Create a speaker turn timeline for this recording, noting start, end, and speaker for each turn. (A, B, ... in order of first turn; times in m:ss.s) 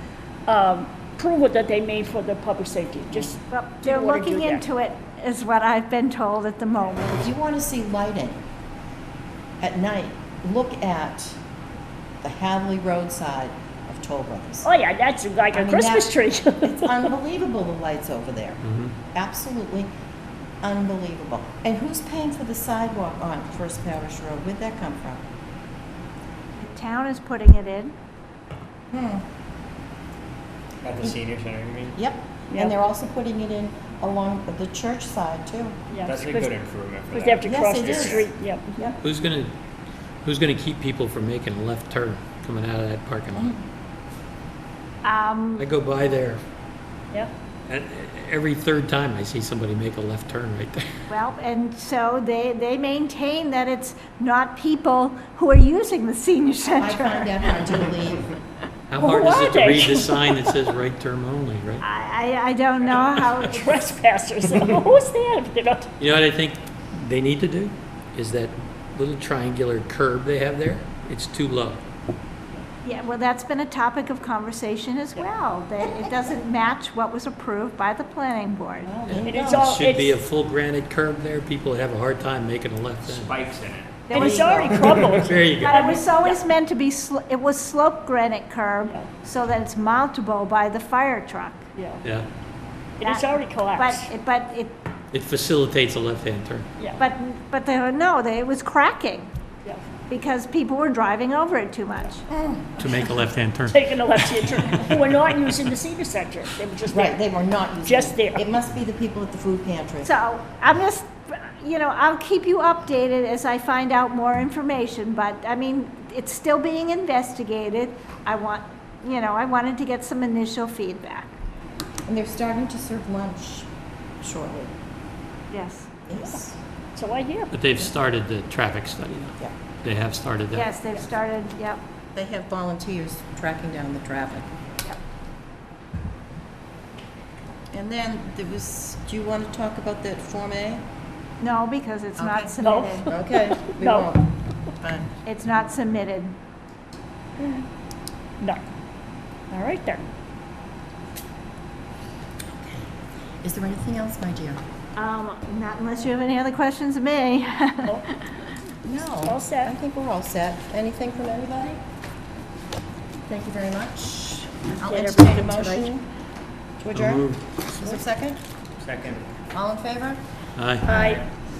0:00.5-0:04.6 A
0:03.5-0:07.3 B
0:07.2-0:08.4 C
0:09.6-0:11.4 C
0:12.2-0:14.7 C
0:14.6-0:17.1 A
0:15.5-0:18.6 C
0:18.6-0:18.9 D
0:19.1-0:19.9 C
0:20.6-0:25.2 C
0:26.6-0:27.9 B
0:28.9-0:29.2 C
0:30.8-0:32.0 E
0:32.0-0:35.8 C
0:35.9-0:36.5 A
0:36.0-0:38.2 E
0:37.1-0:38.9 A
0:37.4-0:38.2 C
0:39.0-0:39.5 D
0:40.2-0:43.5 D
0:43.3-0:43.6 C
0:45.0-0:45.7 B
0:45.6-0:46.4 D
0:47.7-0:50.8 D
0:51.1-0:57.3 B
0:56.8-0:58.3 C
0:58.9-1:01.8 D
0:59.0-1:00.1 A
1:01.8-1:03.8 B
1:02.9-1:05.9 A
1:06.0-1:11.8 D
1:12.8-1:18.9 B
1:18.8-1:19.6 C
1:19.1-1:23.4 D
1:19.2-1:20.2 A
1:23.0-1:25.2 E
1:24.1-1:24.8 B
1:24.1-1:26.4 A
1:25.2-1:25.8 D
1:25.6-1:31.7 B
1:31.7-1:32.0 A
1:33.0-1:34.1 A
1:33.0-1:34.8 B
1:35.1-1:36.7 D
1:37.0-1:39.3 B
1:40.1-1:42.2 B
1:42.3-1:43.0 C
1:42.8-1:43.8 D
1:43.7-1:47.2 A
1:46.9-1:50.1 C
1:47.8-1:48.4 A
1:50.0-2:01.3 B
2:02.0-2:03.7 C
2:04.2-2:04.7 C
2:05.5-2:05.9 B
2:06.1-2:06.6 C
2:06.9-2:07.5 A
2:07.5-2:10.8 D
2:10.5-2:11.8 B
2:12.1-2:14.4 C
2:17.7-2:20.8 C
2:21.4-2:23.1 B
2:22.2-2:22.5 C
2:22.6-2:24.1 A
2:23.1-2:25.1 C
2:25.2-2:26.3 B
2:29.5-2:30.0 A
2:32.6-2:32.9 C
2:33.4-2:34.6 C
2:35.0-2:38.2 B
2:38.8-2:41.8 C
2:39.2-2:39.7 A
2:43.3-2:46.0 C
2:44.8-2:45.9 A
2:46.8-2:48.4 C
2:46.9-2:48.0 D
2:48.8-2:49.2 E
2:49.5-2:50.2 C
2:50.6-2:50.9 D
2:50.8-2:51.2 A
2:50.9-2:51.2 E